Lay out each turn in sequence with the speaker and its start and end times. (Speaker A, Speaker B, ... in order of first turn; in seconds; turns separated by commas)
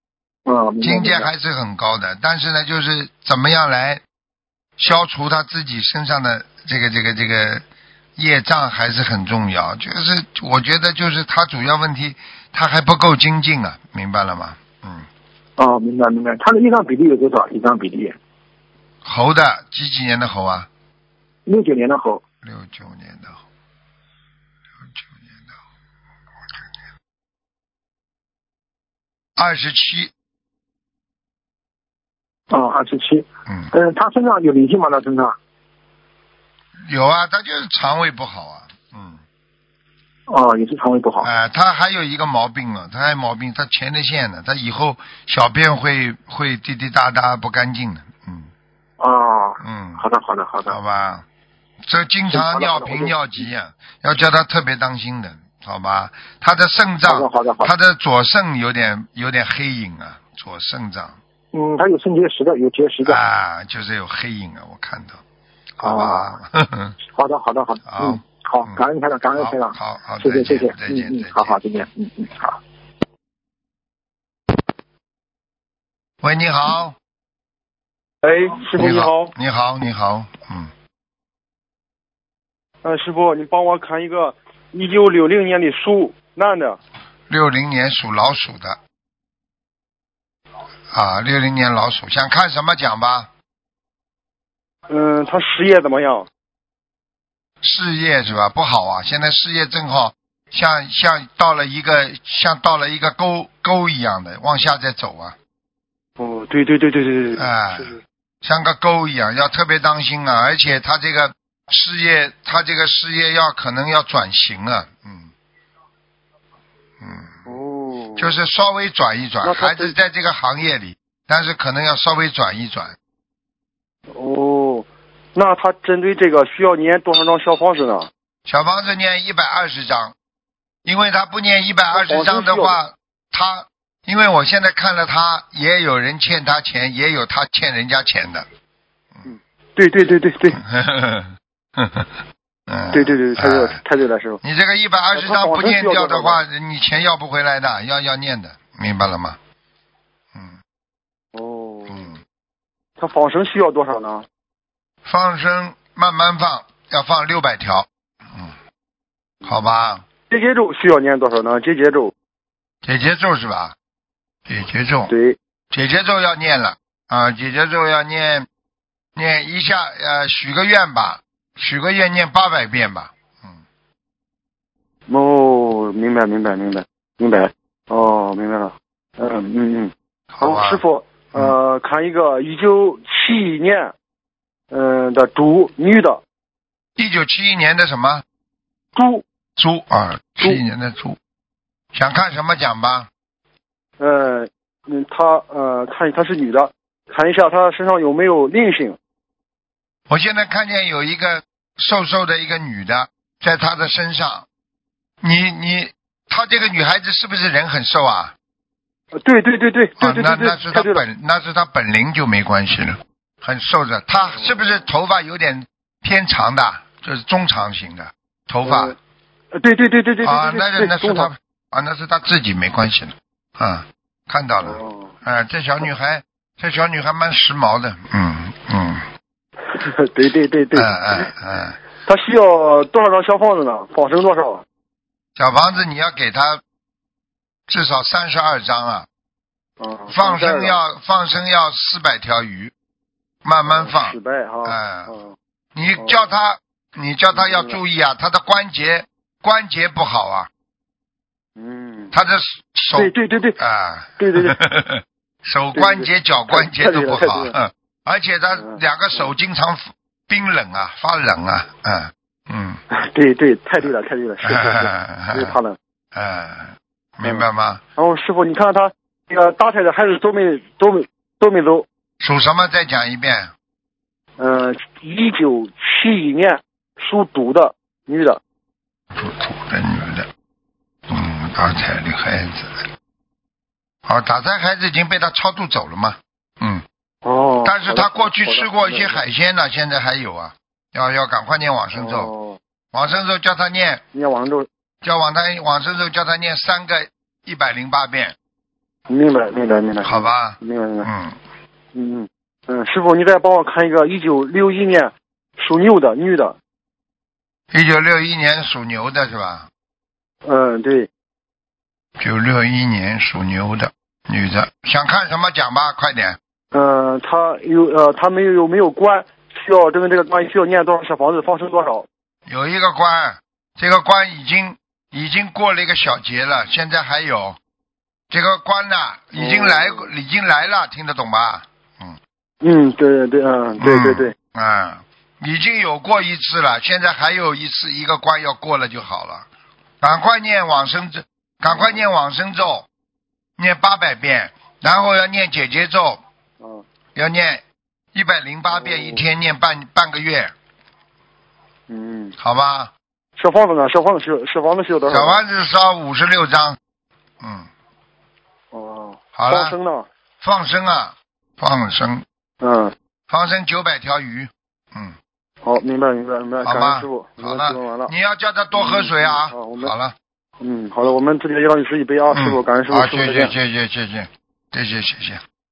Speaker A: 0.5-1.3, Speaker B: 0.8-4.0, Speaker B: 4.8-7.6, Speaker B: 8.2-15.1, Speaker A: 15.6-18.1, Speaker B: 19.0-20.7, Speaker A: 21.4-22.2, Speaker B: 22.4-23.4, Speaker B: 24.9-25.5, Speaker B: 29.4-30.1, Speaker A: 32.5-35.3, Speaker B: 36.9-39.2, Speaker A: 40.3-41.3, Speaker B: 41.2-48.5, Speaker A: 49.0-50.8, Speaker B: 49.6-50.0, Speaker B: 50.7-51.2, Speaker B: 51.9-61.2, Speaker A: 52.3-53.5, Speaker A: 57.0-57.7, Speaker A: 61.5-63.2, Speaker B: 63.0-65.2, Speaker B: 65.8-67.0, Speaker A: 65.8-66.3, Speaker A: 67.1-72.6, Speaker B: 67.9-68.8, Speaker B: 69.4-71.5, Speaker B: 76.2-77.0, Speaker C: 78.2-79.3, Speaker B: 78.8-80.7, Speaker C: 82.8-86.8, Speaker B: 87.3-88.8, Speaker B: 90.9-93.3, Speaker C: 94.9-96.3, Speaker B: 97.6-105.3, Speaker C: 106.2-108.0, Speaker B: 107.3-115.3, Speaker B: 117.0-117.4, Speaker C: 117.4-118.3, Speaker B: 118.2-122.9, Speaker C: 119.4-119.9, Speaker C: 124.1-128.1, Speaker B: 128.4-130.1, Speaker B: 130.8-138.4, Speaker C: 131.9-132.8, Speaker C: 139.2-140.6, Speaker B: 140.5-143.8, Speaker C: 142.9-144.4, Speaker B: 144.4-149.4, Speaker C: 145.1-146.4, Speaker C: 151.3-152.1, Speaker B: 151.9-152.2, Speaker C: 153.0-154.2, Speaker B: 155.0-158.5, Speaker B: 159.4-160.0, Speaker C: 160.3-162.1, Speaker B: 162.8-163.7, Speaker B: 164.5-165.1, Speaker C: 165.1-165.4, Speaker B: 165.7-168.4, Speaker B: 169.2-173.6, Speaker C: 175.1-183.9, Speaker B: 180.4-180.8, Speaker C: 184.7-186.2, Speaker B: 187.0-188.2, Speaker C: 188.9-189.2, Speaker B: 189.6-191.2, Speaker B: 191.9-193.1, Speaker C: 194.0-199.0, Speaker B: 200.1-204.4, Speaker B: 205.2-208.3, Speaker C: 209.1-211.0, Speaker B: 210.0-218.9, Speaker C: 218.6-218.9, Speaker C: 219.5-221.3, Speaker B: 220.2-229.0, Speaker C: 224.7-225.1, Speaker C: 229.7-231.3, Speaker B: 230.7-231.8, Speaker C: 232.0-234.6, Speaker B: 235.4-236.6, Speaker B: 237.7-239.1, Speaker C: 239.8-240.8, Speaker B: 240.1-242.7, Speaker B: 243.4-245.1, Speaker C: 243.7-245.3, Speaker B: 245.7-250.5, Speaker C: 246.0-246.3, Speaker C: 247.3-247.8, Speaker C: 251.6-252.1, Speaker B: 252.1-262.8, Speaker C: 252.9-253.6, Speaker C: 254.2-254.6, Speaker C: 255.7-257.5, Speaker C: 258.5-258.8, Speaker C: 262.9-265.8, Speaker B: 264.4-265.6, Speaker B: 266.1-267.8, Speaker C: 267.9-271.9, Speaker B: 272.2-273.5, Speaker C: 274.4-278.4, Speaker B: 279.1-280.3, Speaker B: 281.1-282.9, Speaker B: 284.1-286.8, Speaker C: 287.2-289.2, Speaker B: 287.6-292.3, Speaker C: 291.9-292.6, Speaker B: 292.9-294.0, Speaker C: 294.1-294.7, Speaker B: 295.0-298.3, Speaker C: 299.1-301.1, Speaker B: 300.0-301.4, Speaker C: 301.9-306.6, Speaker B: 307.7-309.7, Speaker C: 310.4-311.1, Speaker B: 312.2-316.4, Speaker C: 316.7-322.1, Speaker B: 322.5-327.6, Speaker B: 328.3-332.2, Speaker C: 329.4-330.1, Speaker C: 332.6-334.3, Speaker B: 333.8-339.5, Speaker B: 340.0-342.9, Speaker C: 341.7-342.0, Speaker B: 343.6-346.2, Speaker B: 347.1-347.6, Speaker B: 348.1-350.5, Speaker C: 348.7-349.2, Speaker C: 351.9-352.3, Speaker B: 352.4-352.9, Speaker C: 353.4-355.4, Speaker B: 355.1-356.8, Speaker B: 357.4-357.7, Speaker C: 358.7-360.1, Speaker B: 359.3-359.8, Speaker B: 360.4-362.2, Speaker C: 362.6-362.9, Speaker B: 363.3-365.1, Speaker C: 365.6-368.1, Speaker B: 366.6-370.1, Speaker C: 368.7-369.9, Speaker C: 370.6-373.5, Speaker B: 372.3-375.4